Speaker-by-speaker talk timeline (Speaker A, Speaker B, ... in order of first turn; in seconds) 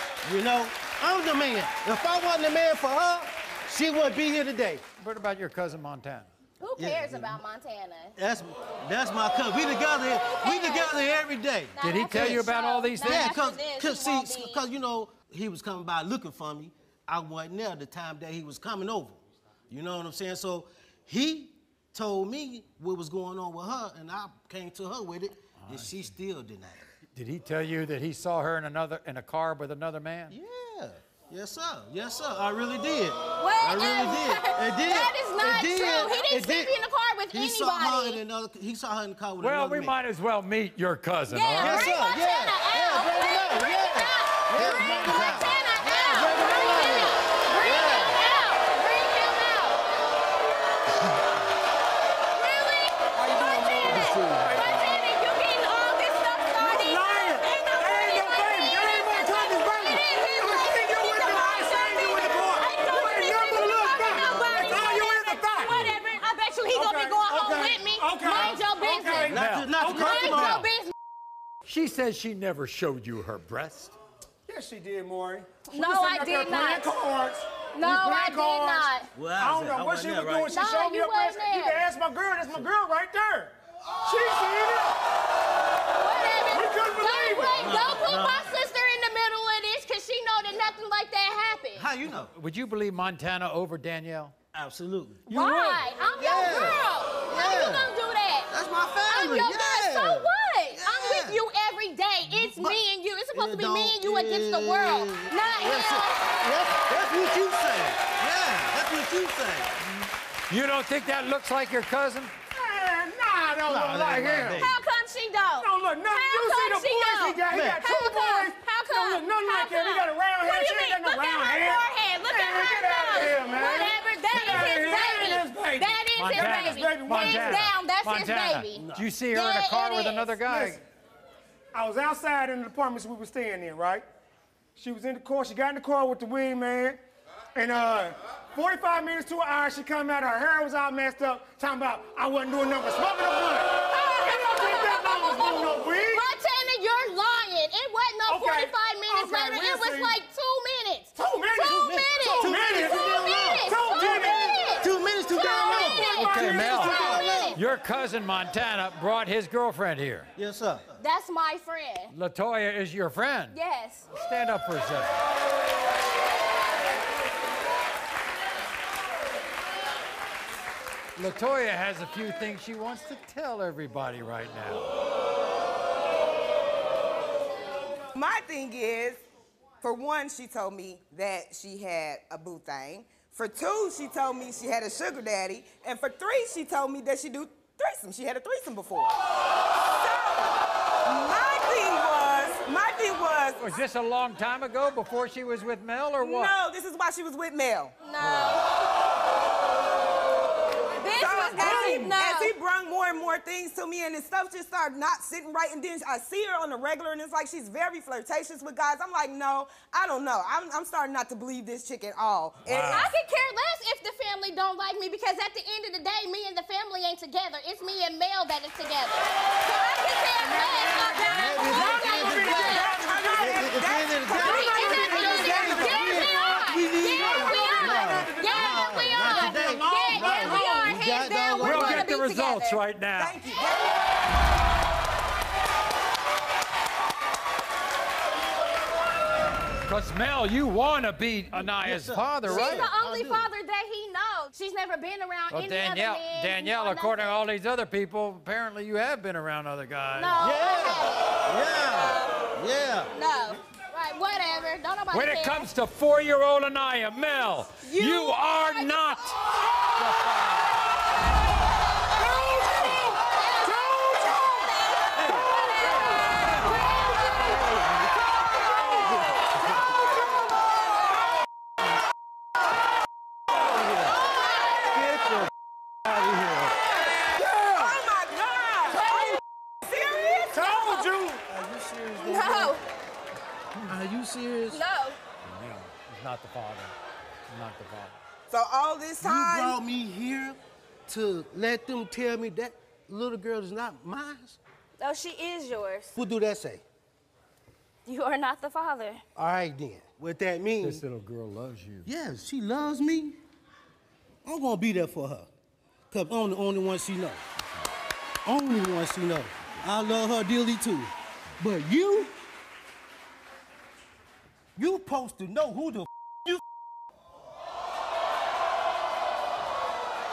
Speaker A: 0.2-4.8, 6.8-7.4, 8.2-12.4, 13.0-26.8, 30.3-36.8, 37.3-40.0, 41.6-48.2, 53.8-54.8, 69.3-70.7, 79.2-80.5, 87.6-88.5, 91.8-92.3, 94.5-95.3, 96.2-97.9, 98.5-101.4, 102.3-102.8, 103.3-109.7, 113.7-114.7, 117.5-117.9, 128.8-129.1, 151.7-157.6, 160.4-160.9, 221.3-222.8, 223.4-232.1, 241.5-243.5, 250.4-253.1, 274.9-275.5, 276.1-276.8, 281.5-282.8, 283.9-284.8, 289.2-294.6, 296.1-296.8, 299.4-301.0, 302.1-303.4, 304.4-305.5, 306.1-307.4, 308.4-312.4, 314.8-316.6
Speaker B: 5.0-6.3, 11.8-13.3, 25.6-26.1, 27.1-30.4, 39.4-41.9, 44.6-45.6, 65.7-66.0, 69.3-69.7, 71.7-74.0, 92.1-94.3, 95.3-95.8, 110.5-112.3, 126.2-130.8, 156.2-156.9, 157.5-160.3, 162.1-163.6, 164.1-165.2, 171.2-174.8, 193.6-196.6, 198.2-198.6, 212.7-213.1, 231.6-233.4, 239.9-242.9, 245.5-250.4, 255.1-259.4, 285.4-286.9, 287.5-288.2, 300.8-302.1
Speaker C: 6.6-8.2, 10.0-11.2, 11.7-14.6, 33.4-38.2, 41.3-49.8, 52.3-70.9, 75.7-76.9, 77.8-79.1, 80.5-81.8, 86.0-91.9, 95.3-98.5, 99.1-106.4, 114.5-130.4, 143.8-157.6, 161.0-162.1, 163.5-164.1, 198.0-198.6, 201.0-202.5, 212.8-222.9, 224.4-232.8, 242.5-247.4, 250.2-252.4, 253.1-255.7, 257.8-259.2, 262.2-267.6, 274.2-274.9, 279.0-279.4, 282.2-282.8, 284.7-285.2, 295.0-296.2, 298.1-299.2
Speaker D: 53.2-54.2, 178.1-179.2, 179.8-189.2, 189.9-193.7, 196.2-197.9, 201.1-213.1, 221.9-227.8, 233.2-234.1, 277.3-281.1, 288.5-289.8
Speaker E: 54.6-54.9, 56.6-65.8, 66.7-70.5, 74.5-85.0, 86.5-87.6, 112.5-114.7, 115.6-127.7, 130.4-130.8, 131.7-134.1, 134.8-137.0, 137.6-146.3, 148.3-150.2, 151.2-154.6, 155.7-157.3, 220.4-230.9, 262.5-262.9, 263.9-264.5, 280.5-281.4